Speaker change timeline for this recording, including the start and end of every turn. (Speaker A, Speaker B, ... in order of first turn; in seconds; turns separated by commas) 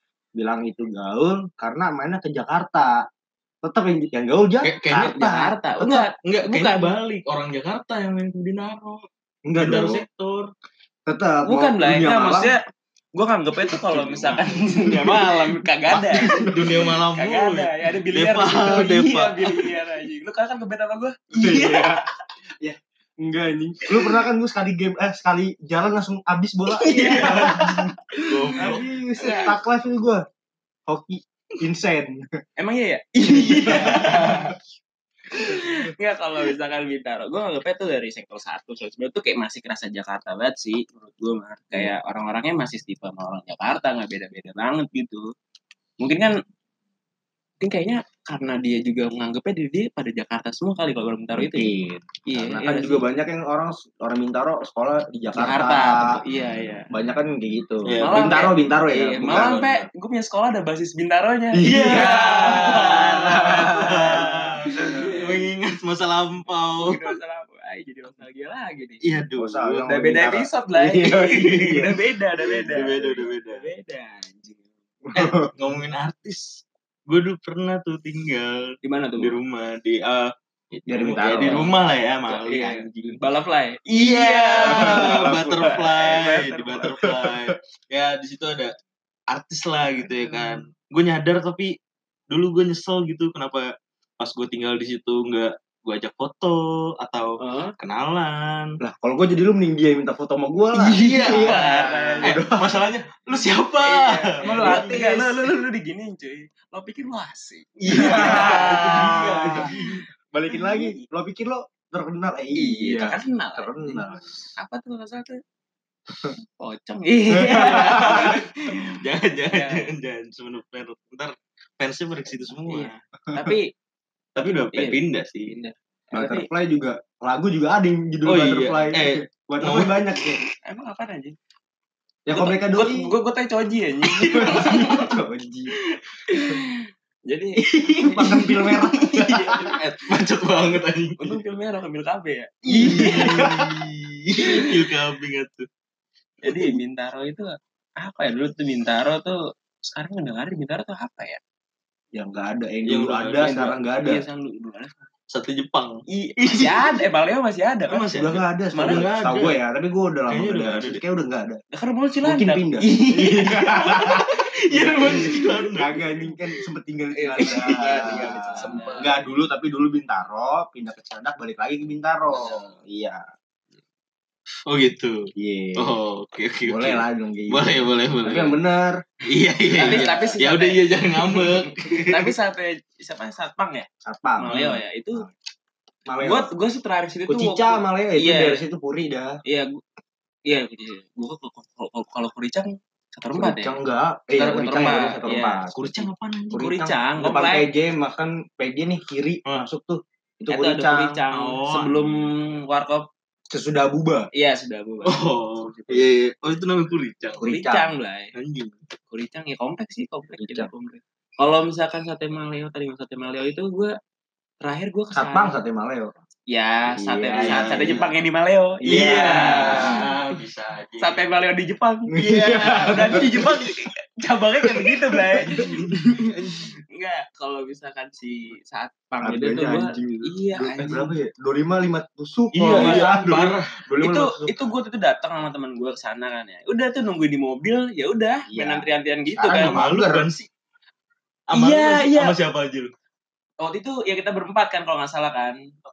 Speaker A: 0.4-3.0, Speaker A: 3.6-5.5, Speaker B: 4.6-5.2, Speaker C: 5.0-7.0, Speaker B: 5.8-9.1, Speaker A: 9.5-10.1, Speaker B: 9.6-10.5, Speaker A: 11.1-12.5, Speaker C: 11.5-12.6, Speaker C: 13.2-16.5, Speaker A: 13.9-14.9, Speaker B: 14.0-19.7, Speaker A: 15.9-16.9, Speaker C: 17.1-22.1, Speaker A: 21.4-22.0, Speaker A: 22.6-30.2, Speaker C: 26.7-29.5, Speaker B: 27.2-27.6, Speaker B: 28.2-28.9, Speaker A: 30.9-32.3, Speaker C: 32.6-34.6, Speaker A: 33.4-34.6, Speaker B: 33.7-34.5, Speaker C: 35.3-45.3, Speaker C: 46.0-46.4, Speaker C: 47.6-53.1, Speaker A: 51.4-56.2, Speaker C: 55.4-56.9, Speaker A: 56.9-59.6, Speaker B: 57.8-58.5, Speaker C: 58.0-65.4, Speaker B: 59.2-59.9, Speaker A: 61.5-65.2, Speaker B: 61.6-67.1, Speaker C: 66.8-69.0, Speaker B: 69.0-70.0, Speaker A: 69.4-72.0, Speaker C: 69.9-74.7, Speaker B: 71.4-71.9, Speaker A: 72.5-73.1, Speaker B: 72.7-73.7, Speaker A: 75.0-75.5, Speaker B: 75.2-83.2, Speaker C: 78.8-79.4, Speaker A: 80.9-81.7, Speaker C: 81.2-81.8, Speaker C: 82.3-86.9, Speaker B: 83.9-88.7, Speaker A: 84.7-85.9, Speaker A: 86.9-87.5, Speaker B: 89.3-91.8, Speaker B: 92.3-98.7, Speaker C: 97.4-97.8, Speaker A: 98.8-102.8, Speaker B: 100.8-105.0, Speaker C: 101.2-102.4, Speaker C: 103.8-111.0, Speaker A: 104.4-105.5, Speaker B: 107.8-110.0, Speaker A: 107.9-109.8, Speaker A: 110.3-114.3, Speaker C: 112.5-115.4, Speaker C: 116.6-119.0, Speaker A: 117.3-118.4, Speaker B: 117.7-123.0, Speaker C: 119.5-119.9, Speaker C: 122.7-123.7, Speaker B: 124.4-125.5, Speaker C: 124.5-126.5, Speaker A: 126.1-130.4, Speaker B: 128.3-130.0, Speaker C: 130.6-131.4, Speaker A: 132.3-133.2, Speaker C: 132.3-135.2, Speaker B: 134.2-134.9, Speaker A: 134.3-135.7, Speaker C: 136.2-139.8, Speaker A: 137.7-139.7, Speaker B: 139.5-141.4, Speaker C: 141.2-143.6, Speaker B: 142.7-145.7, Speaker A: 142.8-143.8, Speaker C: 144.4-144.7, Speaker C: 146.4-151.4, Speaker B: 146.5-146.8, Speaker A: 152.1-154.2, Speaker B: 152.8-153.6, Speaker C: 153.4-155.1, Speaker B: 155.3-157.0, Speaker C: 156.1-158.1, Speaker B: 157.9-159.6, Speaker A: 158.1-161.6, Speaker C: 158.7-159.1, Speaker B: 160.3-161.0, Speaker C: 161.7-165.5, Speaker A: 162.2-164.3, Speaker B: 163.0-166.1, Speaker A: 164.9-173.2, Speaker C: 167.1-169.1, Speaker B: 167.5-169.1, Speaker B: 172.3-172.7, Speaker B: 174.7-178.6, Speaker A: 175.4-176.0, Speaker A: 176.7-179.1, Speaker B: 179.3-182.3, Speaker A: 179.7-180.4, Speaker C: 179.7-183.9, Speaker A: 184.0-184.6, Speaker C: 184.4-185.3, Speaker B: 184.4-184.8, Speaker A: 186.1-186.5, Speaker C: 186.2-188.6, Speaker A: 187.3-189.4, Speaker C: 189.4-189.8, Speaker C: 190.5-193.8, Speaker A: 193.3-201.2, Speaker C: 194.3-195.6, Speaker B: 195.7-196.8, Speaker C: 196.6-197.7, Speaker C: 200.5-203.1, Speaker B: 201.3-202.1, Speaker A: 203.5-204.3, Speaker C: 204.3-206.1, Speaker B: 205.0-207.4, Speaker A: 207.4-207.9, Speaker C: 207.4-208.3, Speaker B: 208.3-208.8, Speaker C: 209.1-214.0, Speaker A: 210.4-210.7, Speaker C: 214.6-215.6, Speaker A: 215.1-216.1, Speaker C: 216.5-220.2, Speaker A: 216.9-218.1, Speaker B: 217.4-218.0, Speaker A: 218.8-220.2, Speaker B: 218.8-221.4, Speaker C: 221.0-226.3, Speaker A: 222.1-223.5, Speaker B: 222.2-223.8, Speaker A: 224.7-226.3, Speaker B: 225.4-226.7, Speaker C: 226.9-231.1, Speaker A: 229.2-234.7, Speaker B: 232.5-233.7, Speaker C: 232.7-233.5, Speaker C: 234.0-239.8, Speaker A: 238.5-240.3, Speaker B: 239.5-240.5, Speaker B: 241.5-242.9, Speaker C: 241.5-242.4, Speaker C: 243.6-245.6